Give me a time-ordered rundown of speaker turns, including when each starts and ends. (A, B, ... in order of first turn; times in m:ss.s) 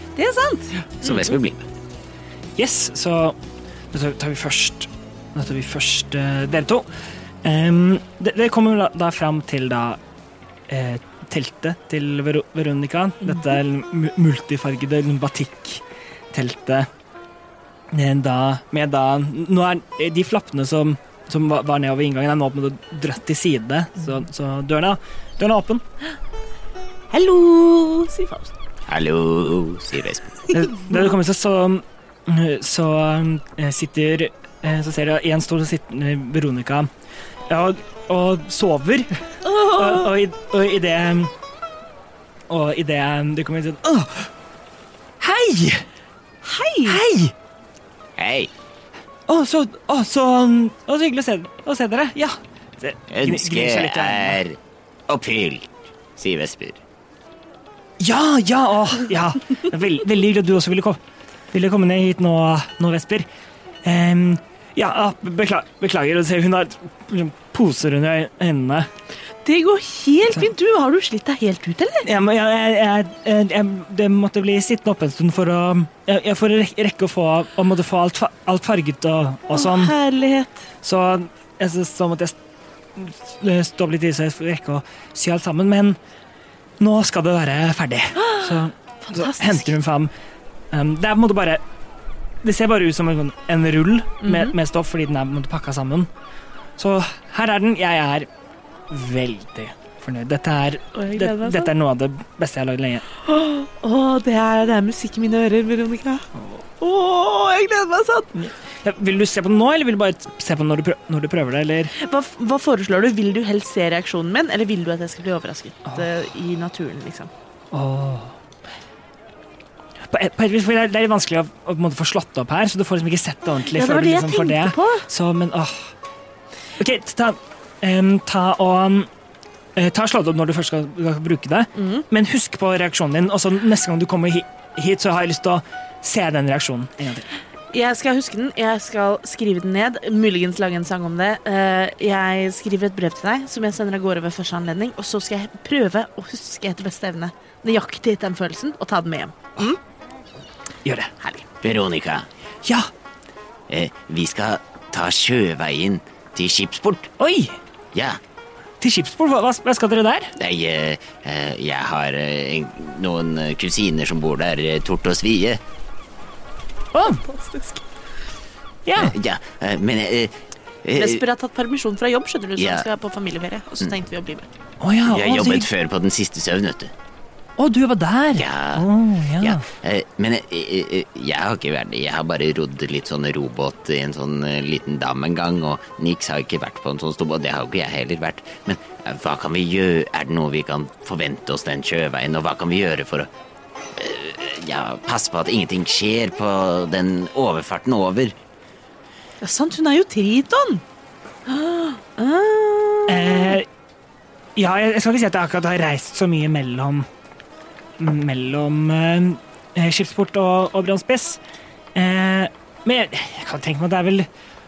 0:00.2-0:01.2 A
0:01.0-0:01.6 B
0:02.6-0:03.4 C
0:03.9-0:06.9 C
0:07.4-0:10.0 C
0:10.7-0:16.9 C
0:17.9-0:25.8 C
0:27.1-0:28.5 A
0:28.9-0:30.4 B
0:30.5-0:36.9 C
0:37.5-0:41.3 C
0:39.4-0:40.1 A
0:42.5-0:44.3 C
0:45.2-0:45.8 C
0:46.4-0:47.0 A
0:46.8-0:47.3 C
0:48.2-0:48.5 B
0:49.3-0:54.4 C
0:53.1-0:56.8 B
0:58.0-1:01.0 C
1:01.5-1:03.2 C
1:03.8-1:08.9 C
1:09.4-1:12.1 A
1:12.0-1:19.9 C
1:19.5-1:20.6 A
1:20.8-1:22.4 C
1:23.0-1:26.0 C
1:26.8-1:30.1 C
1:28.2-1:29.7 A
1:30.7-1:31.6 C
1:32.4-1:36.1 C
1:34.2-1:34.5 A
1:36.8-1:38.3 C
1:38.9-1:43.0 C
1:41.0-1:41.7 A
1:43.2-1:46.3 A
1:46.4-1:46.6 C
1:46.8-1:48.4 A
1:48.4-1:51.9 C
1:51.9-1:57.3 A
1:57.7-1:58.4 C
2:00.1-2:05.9 C
2:03.6-2:05.1 A
2:06.8-2:09.1 C
2:09.8-2:17.3 C
2:11.8-2:12.0 A
2:17.7-2:29.8 A
2:30.8-2:31.1 C
2:31.2-2:32.3 B
2:32.6-2:32.9 C
2:33.7-2:37.1 B
2:37.2-2:37.6 C
2:37.9-2:38.2 B
2:38.8-2:40.3 C
2:40.4-2:45.6 B
2:46.9-2:47.2 C
2:47.2-2:47.8 A
2:48.8-2:49.1 C
2:49.0-2:51.2 B
2:51.0-2:54.5 A
2:52.6-2:52.8 B
2:54.8-2:55.7 C
2:55.1-2:56.9 B
2:57.6-2:59.7 C
2:58.4-2:58.9 B
2:59.4-3:13.3 B
3:13.9-3:18.4 B
3:19.4-3:20.8 A
3:21.4-3:23.5 A
3:23.1-3:23.7 C
3:24.6-3:27.0 C
3:28.0-3:31.4 C
3:31.9-3:34.3 C